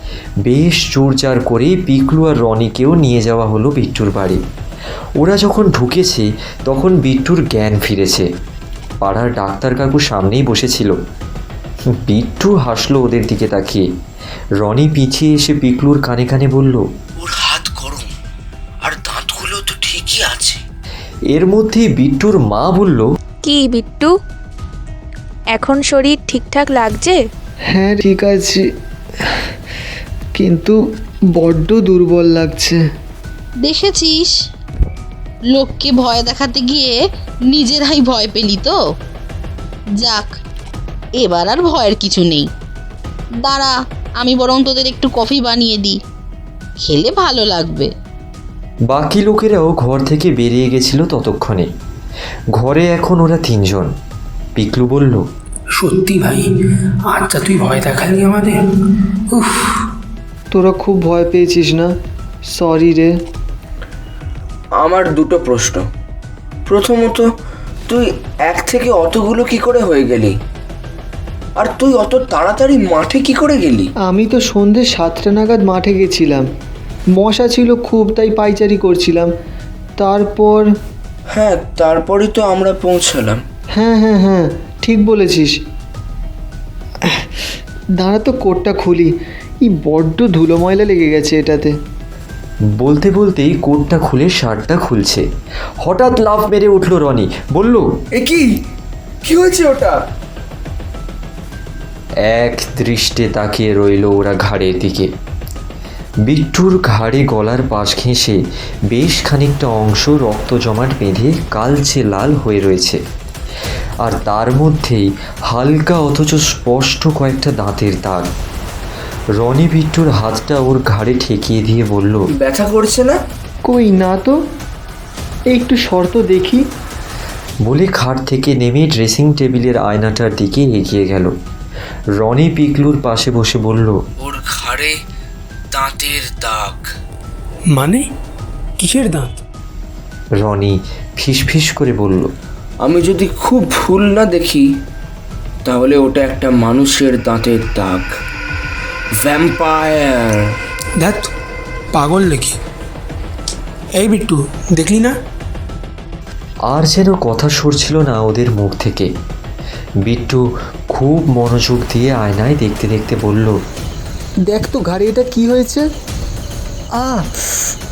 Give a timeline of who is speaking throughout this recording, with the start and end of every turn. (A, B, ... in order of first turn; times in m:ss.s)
0:00.4-0:04.4 A
0:05.2-0:08.3 A
0:09.0-0:11.0 A
0:11.9-0:13.9 A
0:14.6-0:16.9 A
0:17.2-0:18.1 B
0:18.8-0:20.6 B
0:21.3-0:23.1 A
0:23.4-0:24.2 C
0:25.5-0:27.2 C
0:27.7-0:28.6 D
0:30.4-0:30.8 D
0:31.4-0:32.8 D
0:33.6-0:34.3 E
0:35.6-0:38.8 E
0:40.0-0:40.3 E
0:41.2-0:42.5 E
0:43.4-0:46.0 E
0:46.8-0:47.9 E
0:48.9-0:51.7 A
0:52.6-0:53.9 A
0:54.6-0:55.2 A
0:55.8-0:56.5 F
0:57.1-0:59.8 F
1:00.5-1:01.9 D
1:02.5-1:03.1 D
1:04.8-1:05.9 B
1:06.7-1:07.2 B
1:07.9-1:10.3 B
1:11.6-1:13.9 B
1:14.0-1:16.4 D
1:17.2-1:19.3 D
1:20.0-1:20.7 D
1:21.3-1:23.4 B
1:23.7-1:25.5 D
1:28.0-1:29.1 D
1:29.7-1:31.8 D
1:32.8-1:35.2 A
1:35.8-1:37.9 A
1:38.1-1:38.5 B
1:39.2-1:40.0 B
1:42.2-1:45.1 A
1:46.2-1:53.0 A
1:54.0-1:58.3 A
1:59.4-2:02.2 A
2:02.4-2:03.2 B
2:03.6-2:04.4 D
2:05.5-2:06.6 D
2:07.6-2:11.3 A
2:12.2-2:14.0 A
2:14.2-2:14.9 B
2:15.7-2:16.8 B
2:17.7-2:18.0 F
2:18.8-2:19.4 F
2:20.4-2:22.3 A
2:22.8-2:24.6 B
2:25.7-2:28.1 B
2:29.2-2:30.5 B
2:31.0-2:31.3 F
2:32.0-2:32.6 F
2:34.0-2:35.1 F
2:36.7-2:39.1 A
2:40.0-2:43.6 A
2:44.5-2:45.8 D
2:47.0-2:47.2 D